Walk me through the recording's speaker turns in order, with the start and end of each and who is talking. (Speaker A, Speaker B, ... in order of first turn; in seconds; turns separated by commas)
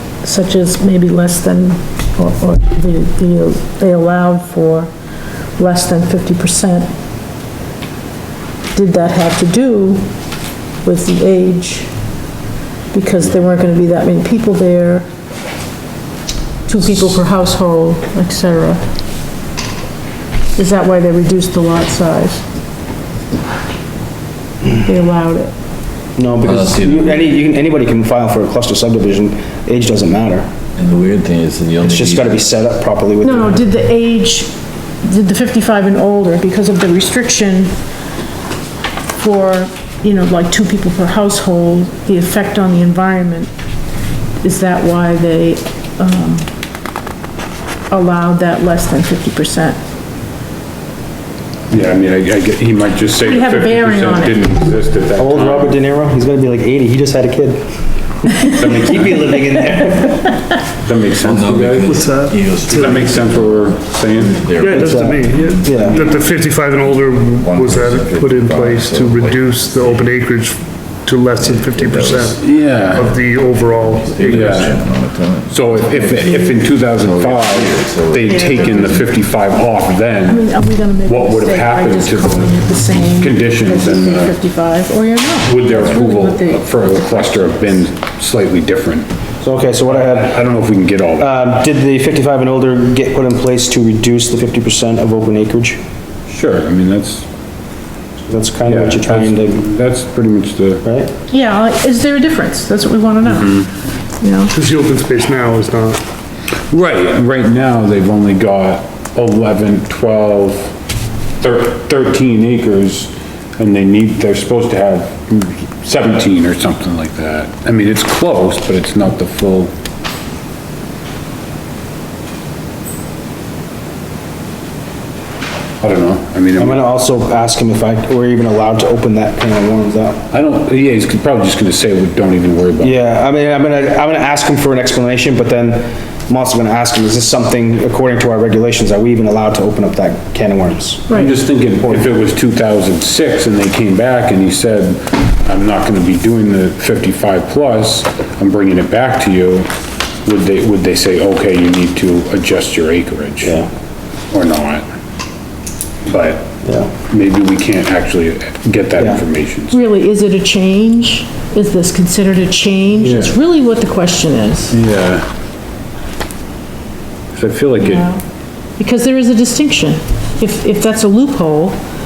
Speaker A: 0.2-4.9, Speaker A: 5.6-6.9, Speaker A: 8.7-10.1, Speaker A: 10.8-11.9, Speaker A: 12.9-15.1, Speaker A: 16.6-18.8, Speaker A: 20.6-22.4, Speaker A: 24.8-25.5, Speaker B: 26.2-30.4, Speaker C: 26.4-27.4, Speaker C: 30.8-32.5, Speaker B: 31.8-33.6, Speaker A: 33.2-34.5, Speaker A: 35.0-37.7, Speaker A: 39.2-43.5, Speaker A: 44.4-46.5, Speaker A: 47.9-49.8, Speaker D: 51.7-55.8, Speaker A: 53.2-54.5, Speaker B: 55.2-57.6, Speaker B: 58.2-60.4, Speaker D: 58.5-59.5, Speaker A: 58.5-58.9, Speaker D: 60.8-61.9, Speaker C: 61.2-70.2, Speaker E: 61.9-63.1, Speaker D: 62.7-64.5, Speaker E: 64.5-74.6, Speaker B: 64.7-66.1, Speaker C: 71.3-79.2, Speaker D: 72.4-73.1, Speaker D: 74.2-74.8, Speaker D: 75.5-80.5, Speaker A: 78.2-78.7, Speaker A: 80.3-87.8, Speaker D: 81.0-84.3, Speaker D: 85.4-89.1, Speaker B: 89.4-90.4, Speaker D: 89.9-91.3, Speaker B: 91.2-95.8, Speaker D: 96.3-97.2, Speaker B: 98.3-99.6, Speaker D: 98.6-100.8, Speaker B: 100.8-101.1, Speaker A: 101.3-103.7, Speaker D: 103.2-103.7, Speaker A: 104.2-104.5, Speaker E: 104.5-106.0, Speaker D: 106.7-110.7, Speaker D: 111.4-119.7, Speaker D: 125.8-126.8, Speaker B: 126.6-130.2, Speaker D: 130.3-133.0, Speaker B: 132.8-142.1, Speaker D: 141.1-149.7, Speaker D: 150.2-153.6, Speaker B: 153.4-153.7, Speaker D: 154.3-154.8, Speaker D: 156.1-156.5, Speaker B: 156.6-156.9, Speaker D: 157.1-159.8, Speaker B: 159.0-159.2, Speaker A: 159.7-164.7, Speaker D: 163.0-163.3, Speaker D: 164.7-165.3, Speaker D: 167.3-168.1, Speaker A: 167.8-168.2, Speaker A: 168.8-171.8